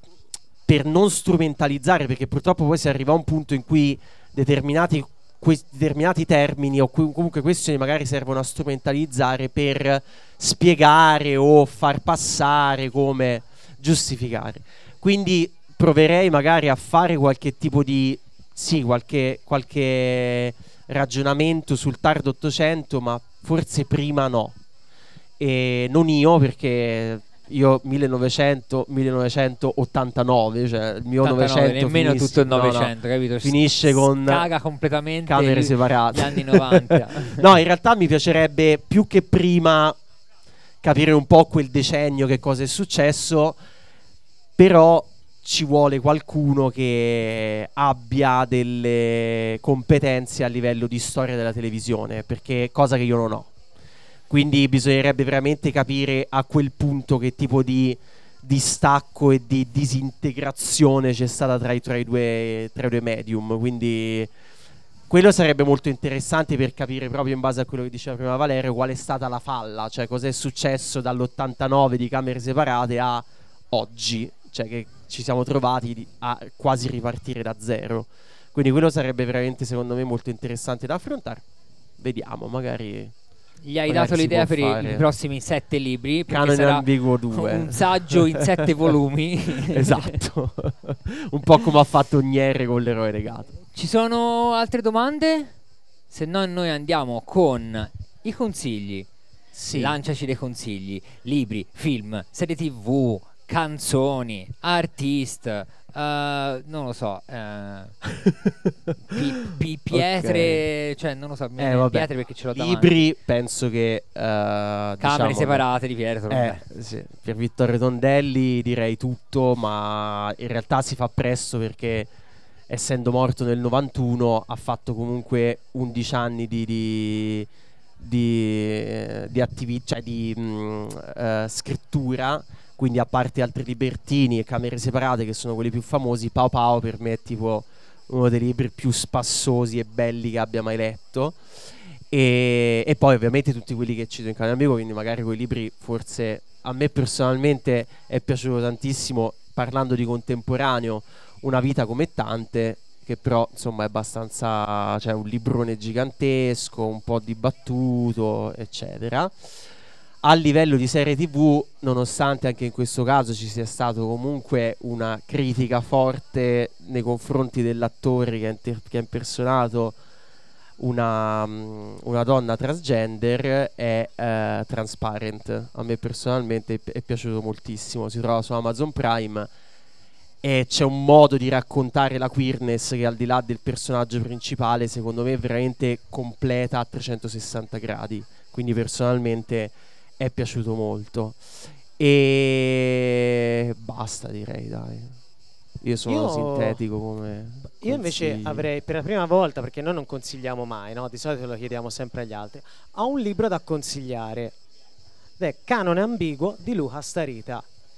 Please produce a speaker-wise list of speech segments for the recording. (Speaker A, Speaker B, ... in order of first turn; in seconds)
Speaker A: 0.7-24.6, 25.4-34.5, 35.3-40.0, 40.8-43.6, 44.6-53.5, 54.3-64.3, 65.1-81.5, 82.0-83.1, 83.9-85.1, 86.3-88.9, 89.6-93.5, 99.5-100.0, 108.2-109.2, 109.9-110.6, 111.6-115.6, 116.3-122.1, 122.7-127.5, 128.0-141.4, 142.1-159.5, 160.2-170.0, 170.8-179.5, 180.4-195.2, 195.8-198.7
Speaker B: 31.2-37.4, 83.7-90.2, 93.7-95.5, 96.1-99.1, 99.7-108.0, 109.1-113.0, 115.0-116.6
Speaker C: 196.1-196.8, 197.8-204.6, 205.4-207.7